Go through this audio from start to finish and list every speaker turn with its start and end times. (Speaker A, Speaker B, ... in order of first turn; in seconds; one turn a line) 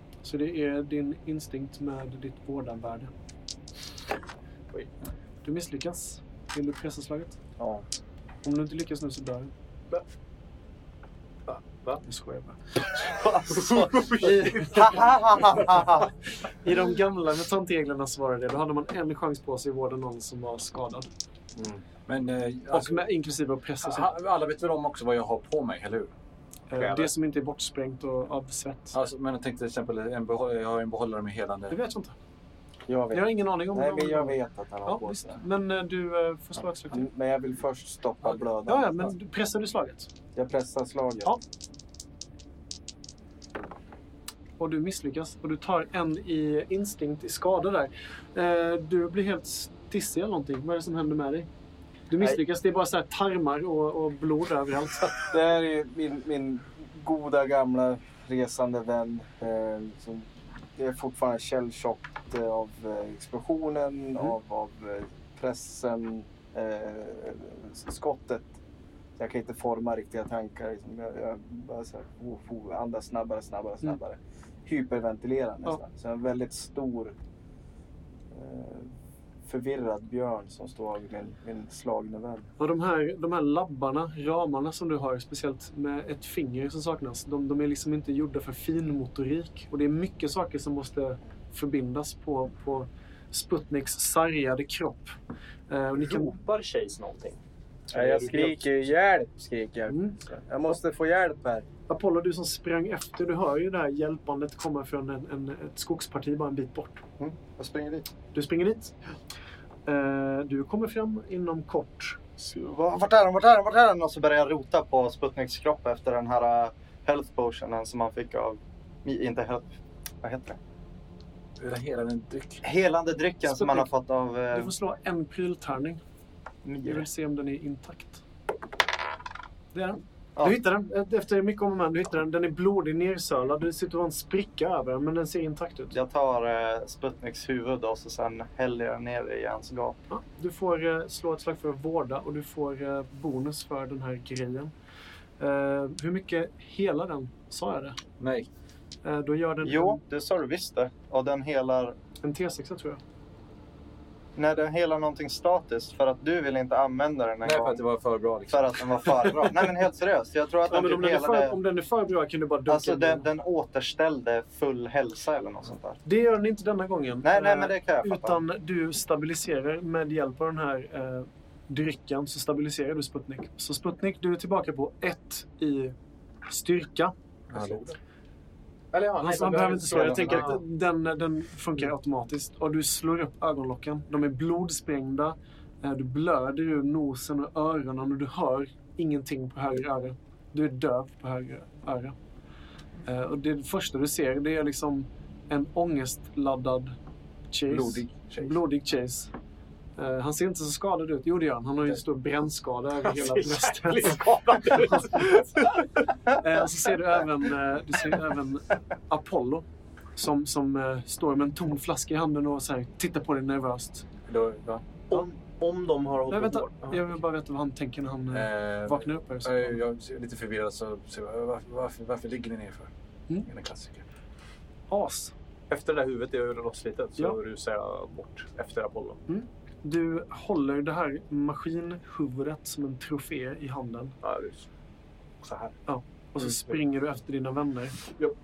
Speaker A: 0.2-3.1
Speaker A: 5.4-7.4
Speaker A: 8.4-9.5
Speaker B: 11.5-12.0
Speaker A: 12.0-12.6
Speaker B: 12.9-15.0
Speaker C: 13.1-16.1
Speaker A: 14.2-16.0
Speaker A: 16.6-21.1
Speaker D: 22.1-23.0
Speaker A: 22.7-24.1
Speaker D: 23.8-26.1
Speaker A: 26.7-28.9
Speaker B: 26.8-27.1
Speaker D: 28.9-31.8
Speaker A: 31.7-32.1
Speaker E: 32.9-35.4
Speaker A: 33.1-37.1
Speaker E: 36.9-39.1
Speaker A: 38.6-40.1
Speaker E: 40.3-41.3
Speaker A: 44.6-51.5
Speaker A: 52.1-55.3
Speaker E: 55.3-68.6
Speaker E: 69.2-77.2
Speaker E: 78.3-78.9
Speaker E: 79.5-82.5
Speaker A: 82.6-95.1
Speaker A: 95.7-96.3
Speaker B: 95.9-97.4
Speaker B: 97.9-98.7
Speaker E: 97.9-101.7
Speaker A: 99.9-100.2
Speaker A: 101.9-107.0
Speaker C: 107.2-108.1
Speaker A: 108.3-109.1
Speaker A: 109.8-112.2
Speaker C: 112.4-120.6
Speaker D: 121.6-122.6
Speaker C: 122.6-124.7
Speaker A: 123.5-123.9
Speaker A: 124.5-126.0
Speaker C: 126.6-127.1
Speaker A: 126.8-128.2
Speaker A: 129.7-135.9
Speaker C: 135.9-139.9
Speaker A: 140.1-144.7
Speaker A: 145.4-148.0
Speaker D: 148.2-148.5
Speaker A: 149.0-150.0
Speaker C: 149.6-152.0
Speaker A: 152.2-153.0
Speaker C: 154.3-157.9
Speaker D: 157.4-159.2
Speaker C: 158.5-161.6
Speaker A: 159.3-159.6
Speaker A: 160.7-163.3
Speaker C: 162.7-166.0
Speaker A: 166.0-175.9
Speaker C: 167.2-168.4
Speaker A: 176.5-177.1
Speaker B: 177.5-177.9
Speaker D: 177.5-177.8
Speaker B: 178.9-180.6
Speaker A: 179.2-192.1
Speaker D: 180.2-180.6
Speaker A: 193.1-196.9
Speaker A: 197.5-199.3
Speaker D: 197.7-198.6
Speaker A: 200.0-209.6
Speaker B: 203.0-206.4
Speaker A: 210.2-214.1
Speaker D: 214.3-214.8
Speaker B: 215.1-217.1
Speaker A: 216.3-219.8
Speaker D: 218.3-222.9
Speaker D: 223.4-224.0
Speaker A: 224.9-225.3
Speaker B: 225.7-229.2
Speaker A: 229.3-234.1
Speaker B: 234.2-234.7
Speaker B: 235.4-235.8
Speaker A: 235.9-238.0
Speaker B: 236.4-236.8